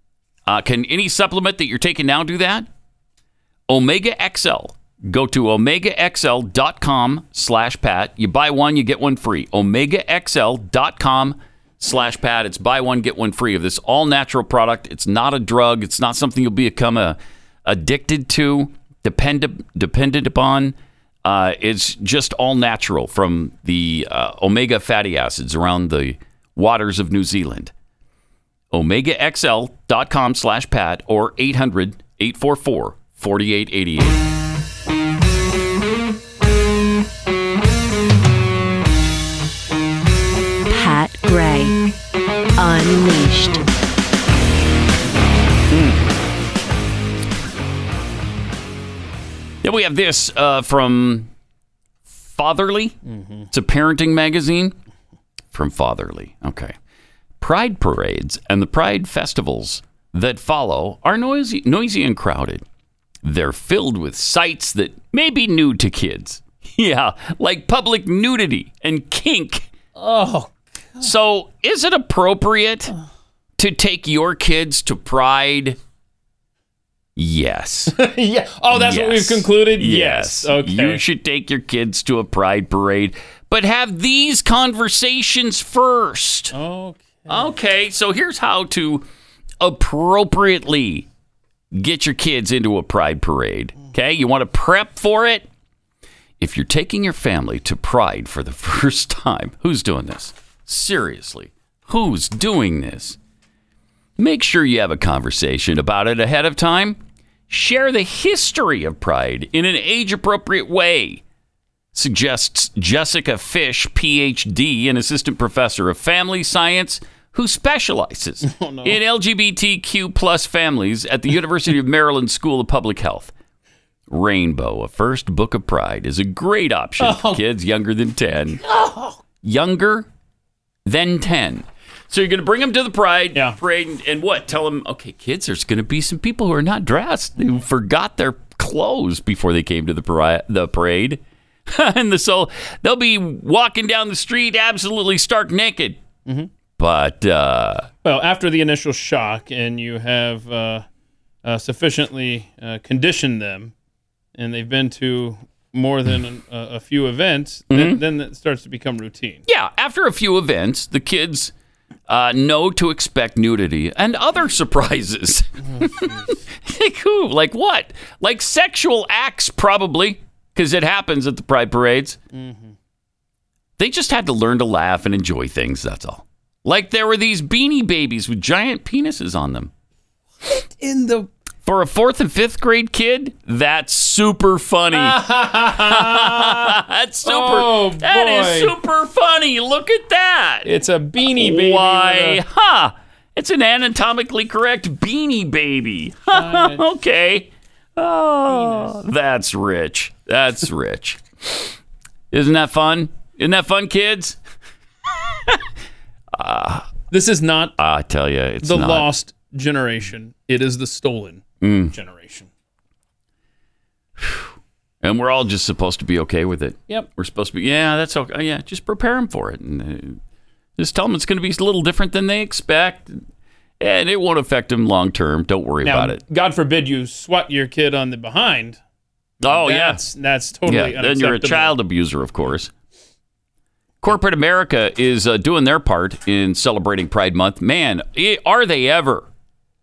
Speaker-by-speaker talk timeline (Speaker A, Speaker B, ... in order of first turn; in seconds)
Speaker A: 0.5-2.7, 3.7-27.7, 28.7-34.2, 45.7-46.1, 49.6-51.3, 52.1-53.0, 53.5-54.7, 55.5-56.8, 57.4-62.6, 63.2-69.7, 71.0-72.9, 73.6-75.8, 77.2-78.0, 78.7-86.5, 87.3-89.1, 89.6-91.1, 91.7-95.5, 96.4-103.2, 104.2-111.2, 111.9-123.3, 124.1-128.6, 129.4-130.1, 130.8-146.0, 146.8-147.9, 157.7-158.0, 159.5-161.5, 162.1-172.2, 173.8-179.7, 181.6-190.7, 191.2-201.8, 202.3-204.4, 206.3-206.9, 207.8-209.1, 211.6-211.9, 214.2-220.2, 220.8-223.2, 223.8-226.2, 229.4-230.0, 230.7-232.7, 234.0-239.3
Speaker B: 40.7-41.8, 42.6-43.6
Speaker C: 53.1-53.5, 70.0-71.0, 77.9-81.0, 86.5-87.5, 118.4-119.0, 127.0-127.4, 128.7-129.2, 148.0-150.8, 151.4-153.7, 154.4-159.4, 165.7-166.4, 172.3-172.7, 180.5-181.3, 184.9-188.7, 190.6-192.4, 196.3-196.8, 198.5-198.9, 207.1-207.7, 208.6-212.5, 225.8-228.8, 229.4-231.7